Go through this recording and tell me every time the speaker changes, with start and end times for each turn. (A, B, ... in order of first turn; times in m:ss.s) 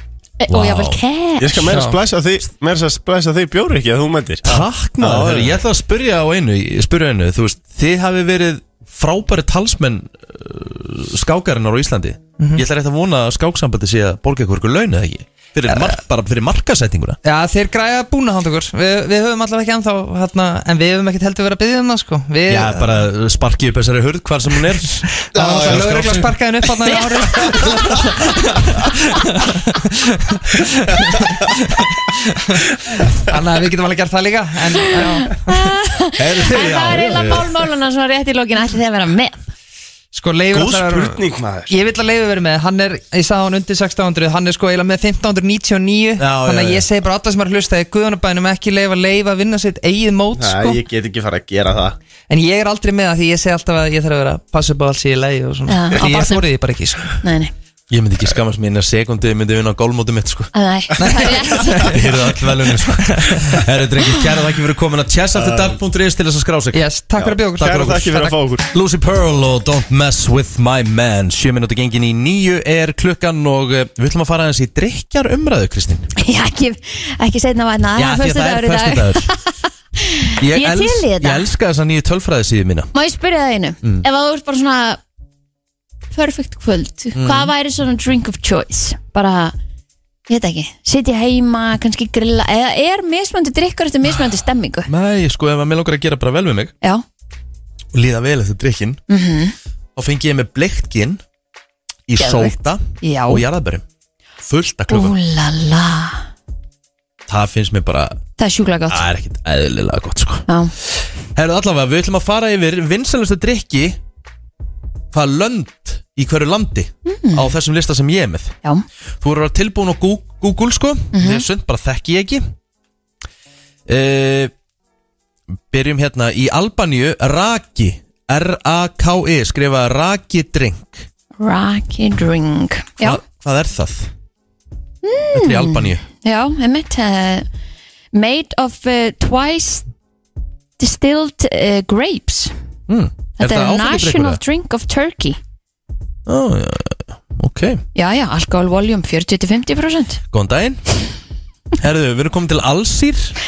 0:00.4-0:01.7 A
0:00.5-0:01.0 B
0:01.4-0:04.4 C
0:01.7-0:02.0 D
0:04.4-0:17.2 B
0:05.0-0:05.6 C
0:12.4-0:12.6 D
0:17.2-0:22.9 D
0:22.5-0:26.3 B
0:25.3-0:32.6 D
0:25.3-0:26.3 C
0:33.3-0:35.7 D
0:35.3-0:39.4 A
0:36.2-0:37.2 C
0:36.4-0:37.5 B
0:40.1-0:50.8 D
0:40.5-0:41.7 C
0:46.2-0:46.8 B
0:50.4-0:52.0 C
0:52.3-0:57.2 D
0:55.7-0:56.4 A
0:57.2-0:57.5 A
0:57.9-1:00.5 B
1:00.5-1:01.9 A
1:01.0-1:02.0 D
1:01.8-1:06.8 B
1:03.1-1:03.4 D
1:05.3-1:05.8 C
1:06.7-1:08.4 D
1:07.2-1:08.7 C
1:08.7-1:16.1 B
1:16.2-1:21.5 A
1:17.9-1:19.3 B
1:20.4-1:22.9 B
1:22.9-1:25.0 A
1:26.1-1:29.5 A
1:27.1-1:27.5 B
1:30.3-1:34.9 A
1:34.9-1:36.7 B
1:37.9-1:39.0 B
1:39.1-1:39.5 A
1:40.0-1:41.2 B
1:42.1-1:43.8 B
1:42.2-1:43.4 A
1:44.4-1:45.1 B
1:44.9-1:46.2 A
1:47.3-1:48.2 B
1:48.4-1:49.1 A
1:48.9-1:50.4 B
1:50.5-1:50.7 A
1:51.3-1:54.0 B
1:55.1-1:58.5 B
1:57.0-1:57.5 A
1:59.2-2:02.5 B
2:01.1-2:01.4 A
2:03.9-2:04.5 B
2:05.7-2:11.1 B
2:11.4-2:13.2 A
2:13.0-2:14.1 B
2:15.0-2:17.5 A
2:15.3-2:16.0 B
2:18.1-2:19.8 A
2:20.8-2:22.5 A
2:22.9-2:24.4 B
2:23.4-2:25.4 A
2:26.2-2:27.8 B
2:27.9-2:30.2 A
2:30.3-2:31.1 B
2:31.8-2:33.4 B